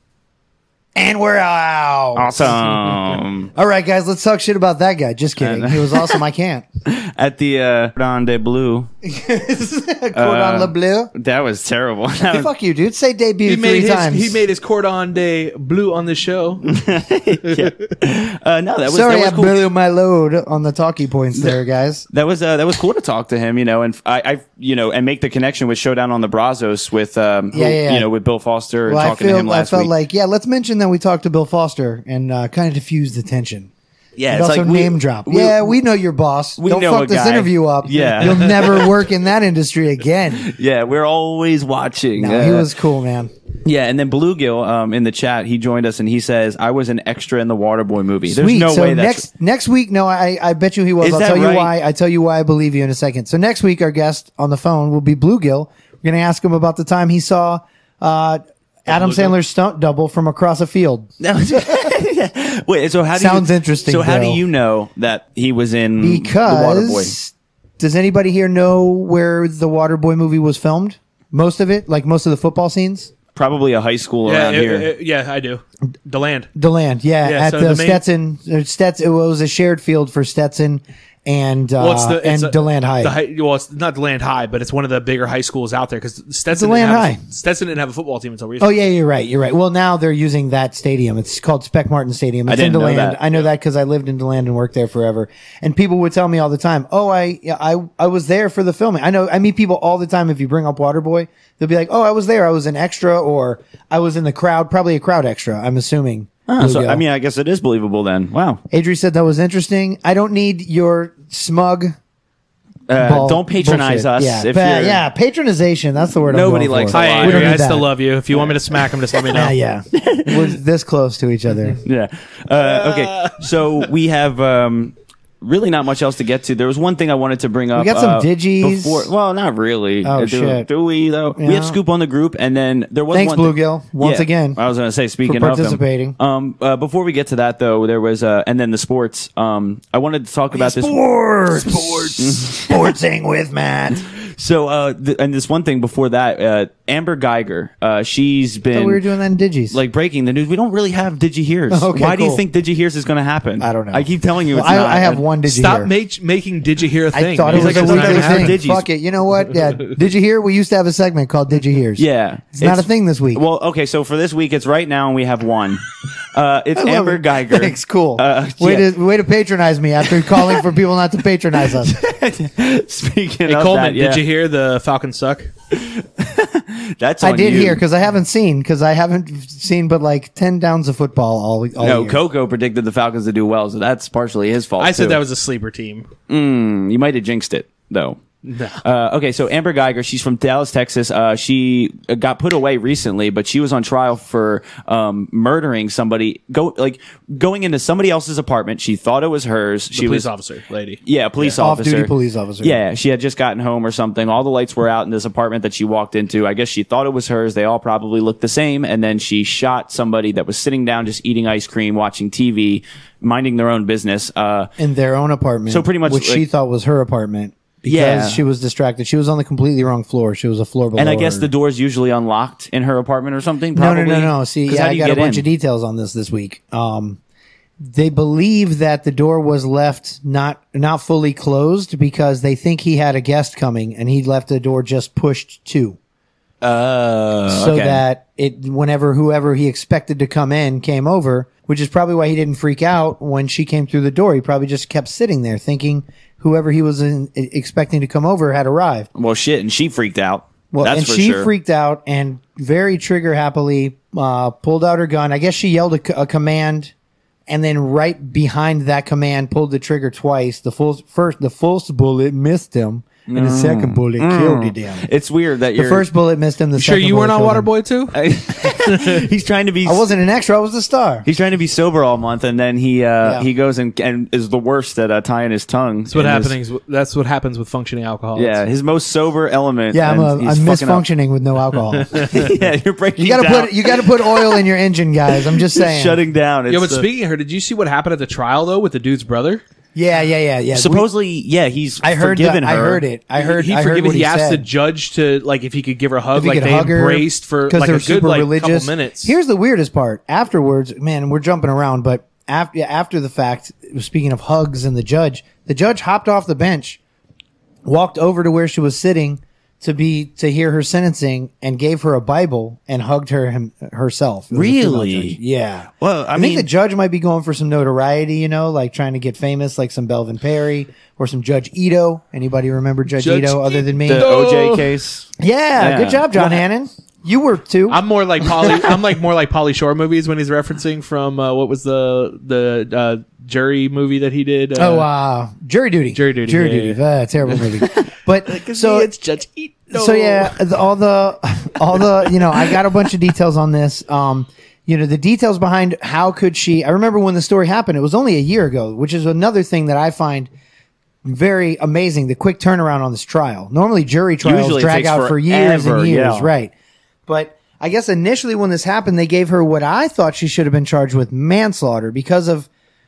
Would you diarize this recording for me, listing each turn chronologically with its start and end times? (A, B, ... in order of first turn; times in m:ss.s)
0:00.9-0:06.6 A
0:02.2-0:03.5 B
0:05.4-0:06.2 B
0:06.8-0:08.9 B
0:09.0-0:11.1 A
0:10.1-0:12.5 B
0:12.3-0:14.4 A
0:13.4-0:16.6 C
0:16.6-0:19.6 B
0:18.9-0:22.0 A
0:22.1-0:29.9 B
0:27.5-0:28.1 A
0:28.9-0:33.7 A
0:34.2-0:35.8 B
0:34.3-0:40.5 A
0:36.6-0:38.9 B
0:40.4-0:42.7 B
0:42.2-0:43.3 A
0:43.6-0:49.2 B
0:48.3-1:01.1 A
0:51.0-0:51.7 B
0:58.9-0:59.3 C
1:01.2-1:07.1 B
1:03.1-1:04.4 A
1:06.0-1:13.1 A
1:13.3-1:14.9 B
1:14.2-1:16.5 C
1:16.5-1:23.1 A
1:17.2-1:18.0 C
1:21.8-1:28.8 C
1:26.5-1:27.2 A
1:28.6-1:47.0 A
1:32.5-1:33.2 B
1:46.5-1:48.6 B
1:48.7-1:52.0 A
1:52.9-1:55.0 B
1:53.0-1:57.9 A
1:56.3-1:57.6 B
1:56.9-1:59.5 C
1:59.3-2:01.8 A
2:00.0-2:00.5 B
2:01.8-2:21.0 B
2:02.8-2:03.3 C
2:07.7-2:09.1 A
2:10.0-2:10.7 A
2:11.4-2:11.8 A
2:13.1-2:14.6 A
2:15.2-2:16.2 A
2:20.5-2:24.0 A
2:21.6-2:22.8 B
2:24.1-2:29.0 B
2:28.7-2:29.8 A
2:29.7-2:35.2 B
2:31.7-2:32.4 A
2:33.6-2:35.9 A
2:35.4-2:38.6 C
2:37.1-2:43.4 A
2:37.5-2:38.8 B
2:42.0-2:48.9 B
2:46.8-2:51.9 A
2:51.8-2:54.2 B
2:53.5-2:55.5 C
2:55.7-2:57.8 B
2:57.2-3:02.2 A
3:01.8-3:05.2 B
3:04.8-3:06.1 C
3:06.3-3:08.2 B
3:08.4-3:08.8 C
3:08.8-3:20.3 B
3:19.9-3:21.6 C
3:21.0-3:34.7 B
3:21.6-3:22.8 A
3:34.8-3:41.5 A
3:35.7-3:36.4 B
3:37.8-3:38.4 B
3:41.0-3:45.4 B
3:43.7-3:47.2 A
3:47.8-3:56.0 A
3:56.6-3:58.0 B
3:57.5-4:09.1 A
4:09.1-4:11.5 B
4:10.7-4:16.9 A
4:17.5-4:25.1 A
4:23.3-4:26.0 B
4:25.7-4:27.7 A
4:26.8-4:29.2 C
4:28.1-4:30.0 B
4:29.8-4:31.2 A
4:31.2-4:36.6 B
4:36.1-4:38.6 C
4:38.3-4:41.0 B
4:39.9-4:42.4 A
4:42.1-4:44.6 B
4:43.2-4:46.2 A
4:45.7-4:47.0 B
4:46.7-4:49.6 C
4:49.9-4:51.0 A
4:50.7-4:53.0 B
4:52.0-4:54.6 A
4:53.4-4:59.4 C
4:56.3-5:07.0 A
5:07.8-5:24.3 A
5:14.5-5:15.4 B
5:16.0-5:16.7 B
5:23.1-5:24.9 C
5:24.1-5:26.3 B
5:25.4-5:28.0 A
5:27.9-5:35.1 C
5:34.7-5:39.1 A
5:36.1-5:40.6 C
5:39.9-5:50.5 A
5:42.2-5:42.8 C
5:51.2-5:56.7 A
5:54.4-5:56.5 B
5:57.3-6:02.7 A